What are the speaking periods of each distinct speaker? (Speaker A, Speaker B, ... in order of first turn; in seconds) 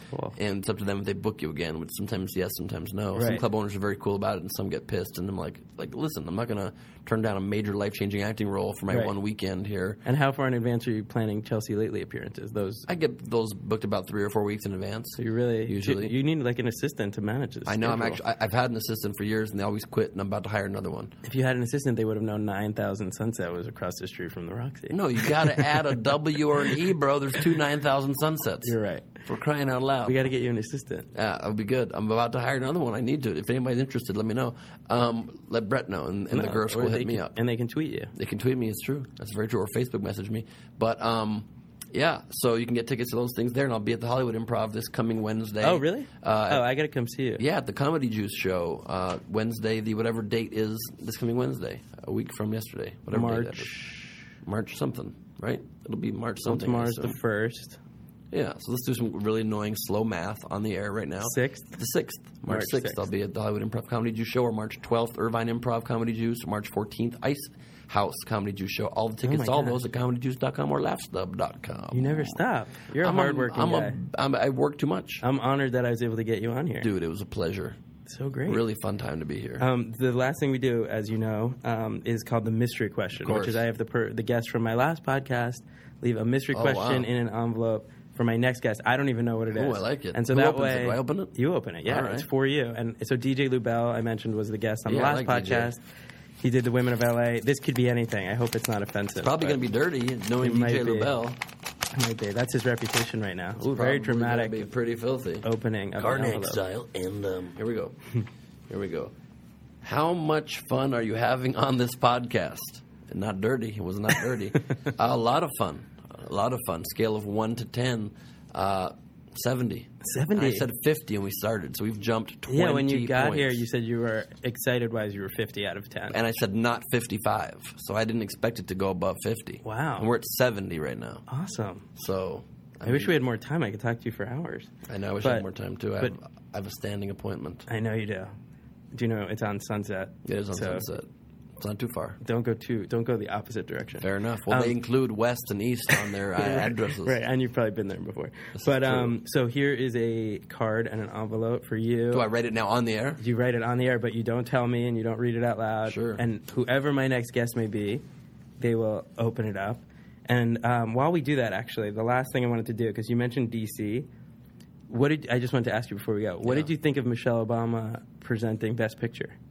Speaker A: 0.1-0.3, 3.1-3.4, 10.0-12.8, 15.2-18.2, 21.2-25.8, 28.6-29.2, 30.0-31.1, 36.3-38.1, 45.6-47.4, 53.1-54.1, 56.4-57.8, 61.2-61.8, 62.5-63.0, 69.2-69.8, 71.9-74.0, 75.2-76.9, 78.1-78.6, 79.6-95.8, 96.4-99.6, 100.4-101.1, 101.9-104.7, 105.4-106.6, 120.0-120.7, 122.5-126.2, 129.6-130.1, 131.3-131.8, 132.8-134.7, 137.7-138.3, 138.9-140.8, 142.2-144.8, 145.9-152.3, 153.2-158.0, 158.6-164.1, 164.9-169.3
Speaker B: 0.3-10.0, 12.9-16.1, 17.6-21.1, 24.9-30.3, 31.1-37.4, 38.1-46.7, 47.4-57.2, 58.3-72.4, 73.0-75.2, 76.8-77.8, 78.5-79.7, 83.2-83.6, 86.5-87.1, 89.5-92.3, 94.8-95.7, 99.2-101.4, 103.6-108.0, 108.7-109.1, 109.8-123.7, 126.1-131.2, 131.9-133.2, 134.8-137.7, 140.2-142.2, 144.0-147.2, 148.5-149.1, 152.1-153.2, 155.8-156.2, 166.4-166.7